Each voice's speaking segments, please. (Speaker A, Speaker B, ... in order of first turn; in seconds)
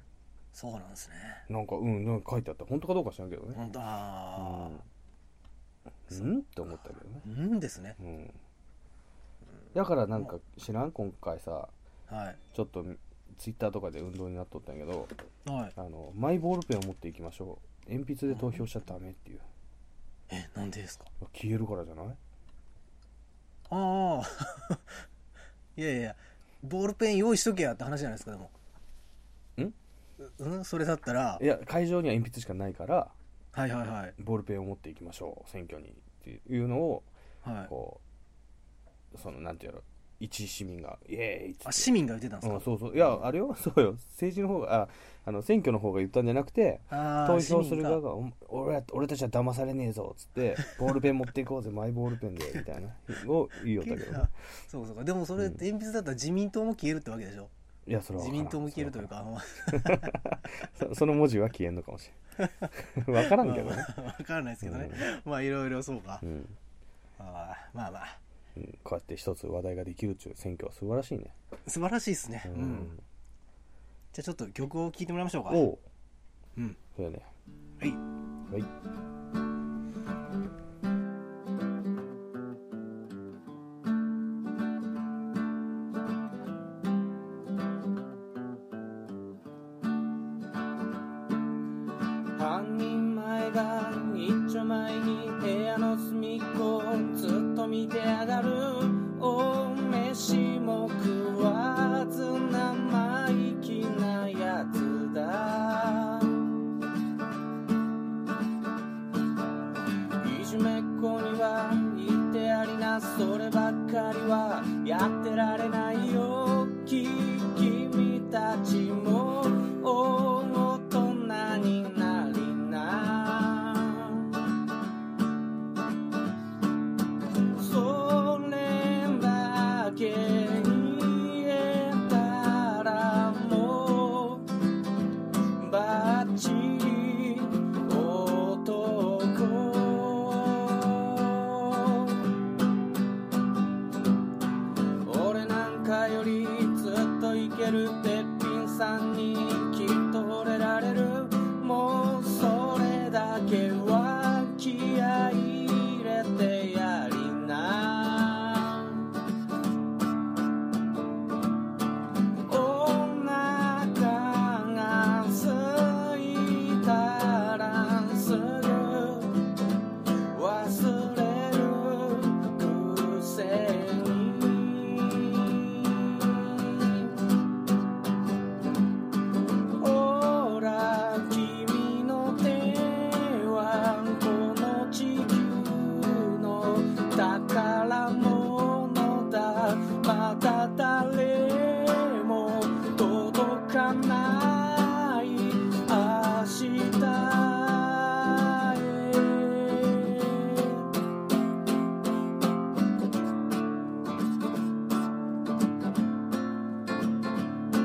Speaker A: 0.5-1.4, 3.5-4.8, 6.1-6.4, 7.2-8.0, 12.1-12.4, 15.4-15.7, 18.3-18.6, 20.3-21.1, 23.7-25.0, 25.8-28.5, 30.2-31.4, 33.5-34.1, 37.4-37.7, 41.6-42.7, 46.9-48.0, 53.8-57.5, 58.2-60.2, 62.4-66.2, 67.2-68.2, 71.7-72.9, 74.1-75.7
Speaker B: 1.5-3.6, 4.3-4.8, 6.1-7.2, 8.0-8.4, 9.7-11.7, 12.5-15.1, 15.8-19.4, 21.2-22.2, 31.4-33.1, 34.2-37.1, 37.7-38.0, 39.1-41.9, 42.4-54.3, 57.9-59.1, 59.7-62.2, 62.7-63.9, 64.6-65.0, 66.2-66.6, 68.5-71.3, 72.5-73.0, 75.5-75.8, 76.9-77.3
Speaker C: 92.3-106.4, 110.2-124.3, 127.5-134.5, 135.6-142.3, 145.0-159.0, 162.5-169.4, 170.3-177.1, 179.8-200.9